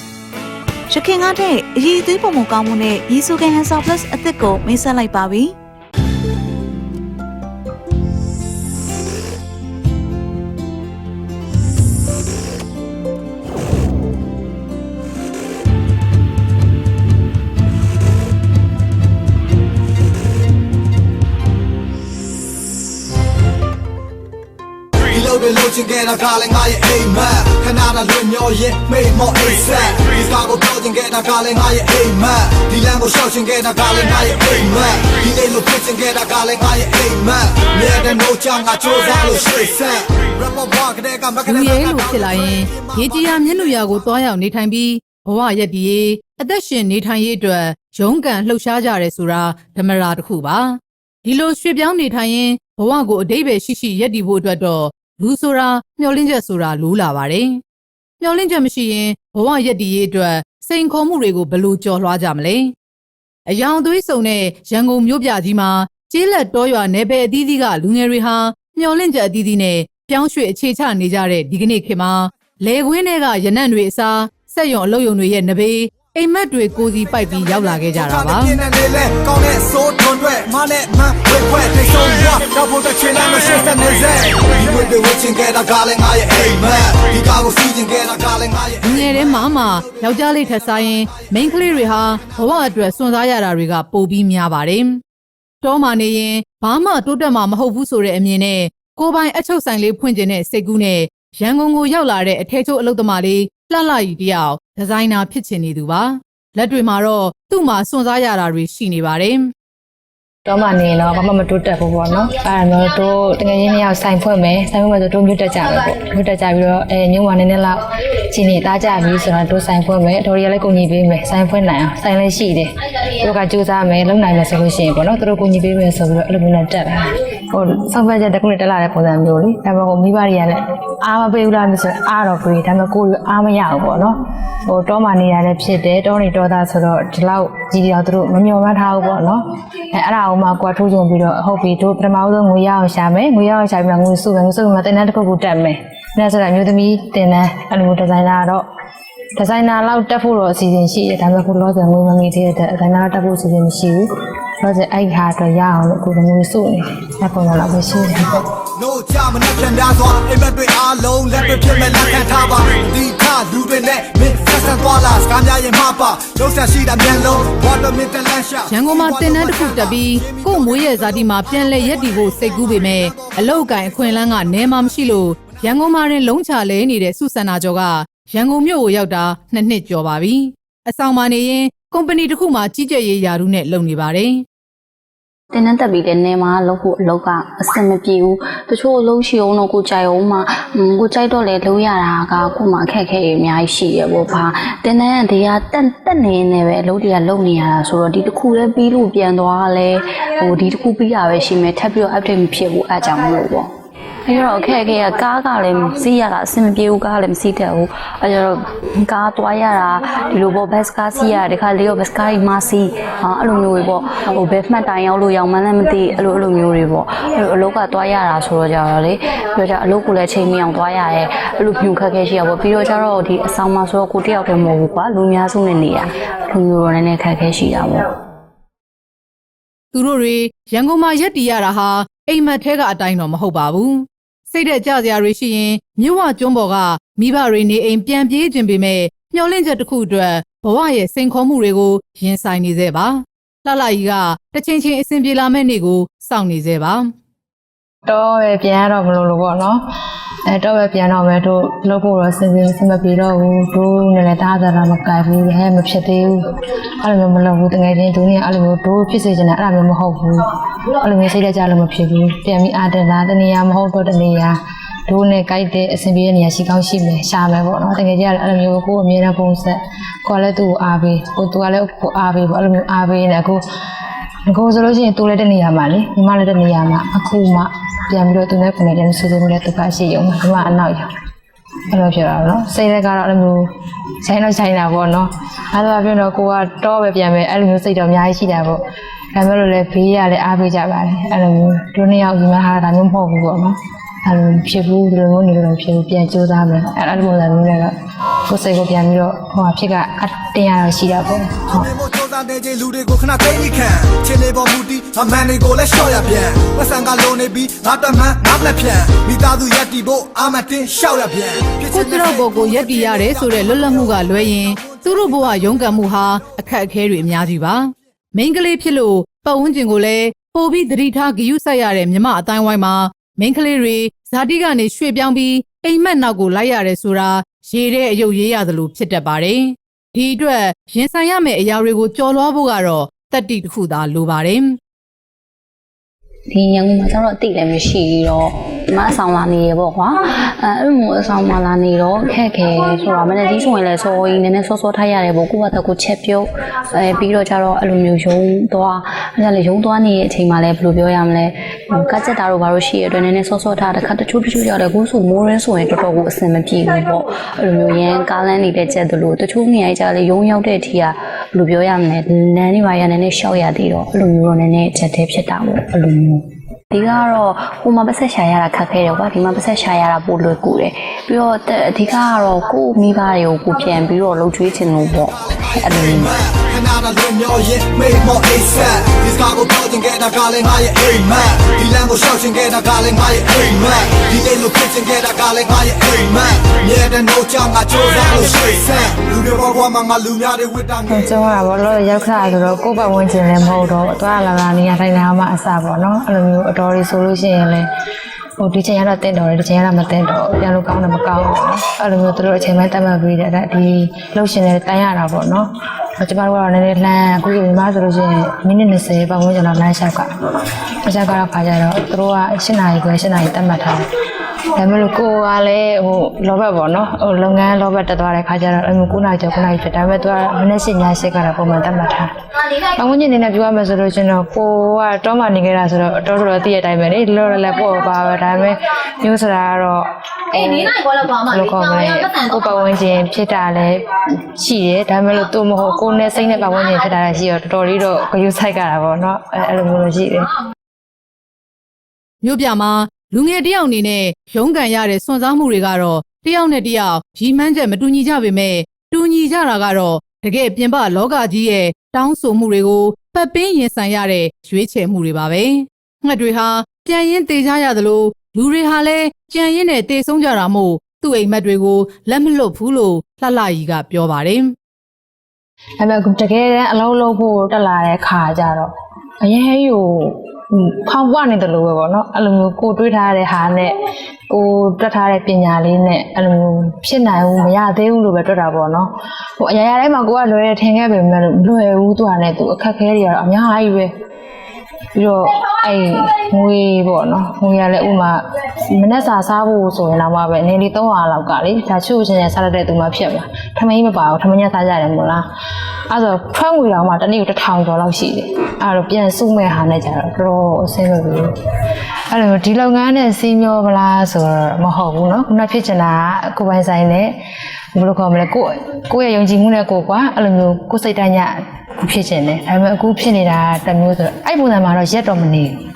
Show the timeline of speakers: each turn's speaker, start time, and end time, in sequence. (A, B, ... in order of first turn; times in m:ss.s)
0:01.0-0:05.5 A
0:25.0-0:43.2 B
0:41.4-0:57.6 C
0:58.2-1:02.7 C
1:03.5-1:18.6 C
1:18.0-1:28.9 B
1:28.8-1:35.0 C
1:35.6-1:49.5 C
1:50.4-2:14.1 D
2:14.6-2:28.6 D
2:29.4-2:34.0 D
2:34.6-2:38.4 D
2:38.7-2:52.6 B
2:48.7-3:04.4 C
2:53.2-2:53.8 B
3:05.5-3:23.7 E
3:24.2-3:48.1 E
3:49.9-4:07.1 C
4:08.0-4:09.8 D
4:10.5-4:16.5 D
4:17.0-4:24.6 D
4:25.1-4:33.6 D
4:34.5-4:41.1 D
4:41.9-4:43.7 D
4:44.2-4:48.8 D
4:49.3-4:57.9 D
4:58.5-5:01.9 D
5:01.7-5:14.3 B
5:11.9-5:34.8 C
5:36.5-6:16.3 E
6:15.4-6:31.2 B
6:31.1-6:37.8 D
6:38.6-6:45.6 D
6:46.2-6:50.3 D
6:51.0-6:54.0 D
6:54.7-7:20.5 D
7:22.4-7:44.7 C
7:46.0-7:48.9 D
7:49.4-7:53.9 D
7:54.5-8:04.1 D
8:05.1-8:15.4 D
8:16.1-8:21.5 D
8:22.3-8:27.3 D
8:27.9-8:35.8 D